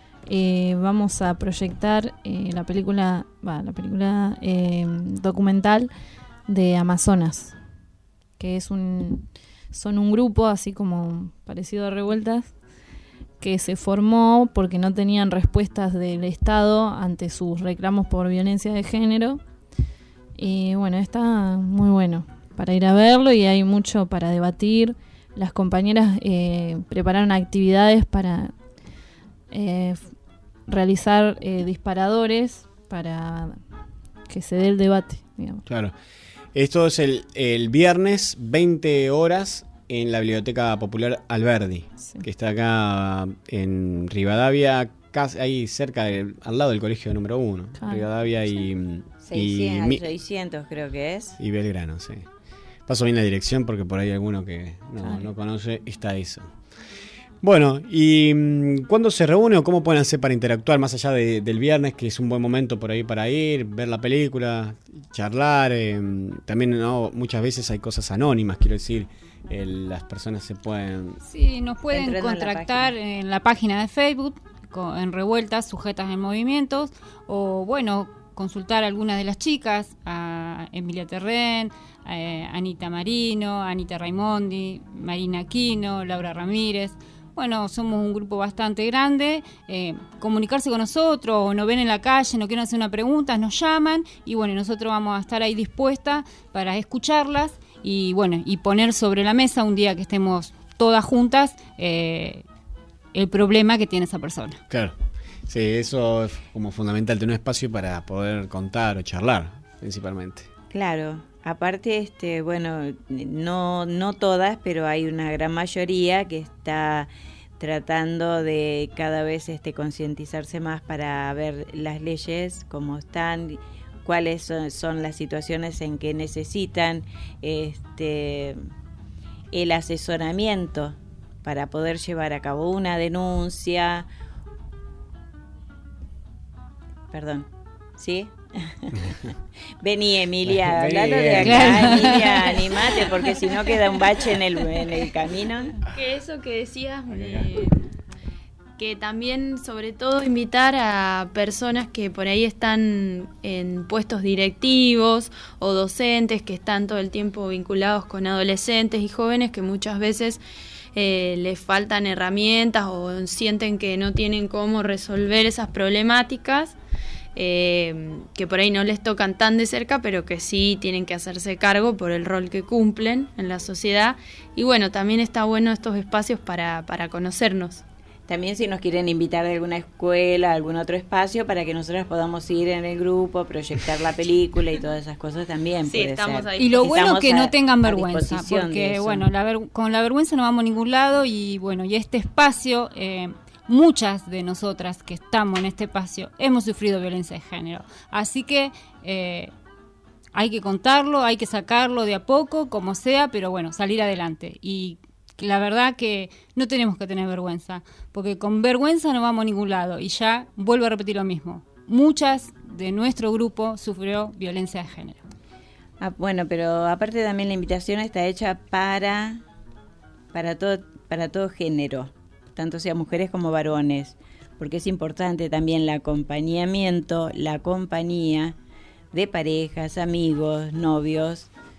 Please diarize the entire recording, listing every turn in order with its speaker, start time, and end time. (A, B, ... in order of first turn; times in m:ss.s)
0:00.3-0:05.9 A
0:06.5-0:07.6 A
0:08.4-0:12.5 A
0:13.4-0:19.4 A
0:20.4-0:28.5 A
0:29.5-0:30.1 A
0:30.7-0:33.6 A
0:34.3-0:35.6 A
0:35.7-0:35.9 B
0:36.6-0:50.0 B
0:47.8-0:48.1 A
0:49.2-0:51.4 C
0:51.4-0:52.2 B
0:52.9-0:56.5 B
0:57.4-1:11.2 B
1:11.2-1:42.4 D
1:11.9-1:12.9 C
1:43.1-1:44.6 D
1:44.7-1:45.0 B
1:45.5-1:50.5 B
1:50.7-2:08.6 C
2:09.5-2:14.1 C
2:17.1-2:18.9 C
2:19.8-2:25.8 C
2:20.4-2:22.1 B
2:21.4-2:22.5 D
2:25.9-2:27.8 E
2:27.1-2:27.6 B
2:28.8-2:40.4 E
2:40.9-2:46.8 E
2:47.4-2:57.8 E
2:58.3-3:09.2 C
3:05.9-3:06.8 E
3:06.6-3:19.5 D
3:20.3-3:35.2 D
3:36.0-3:39.4 C
3:40.3-3:48.6 C
3:49.1-3:51.5 C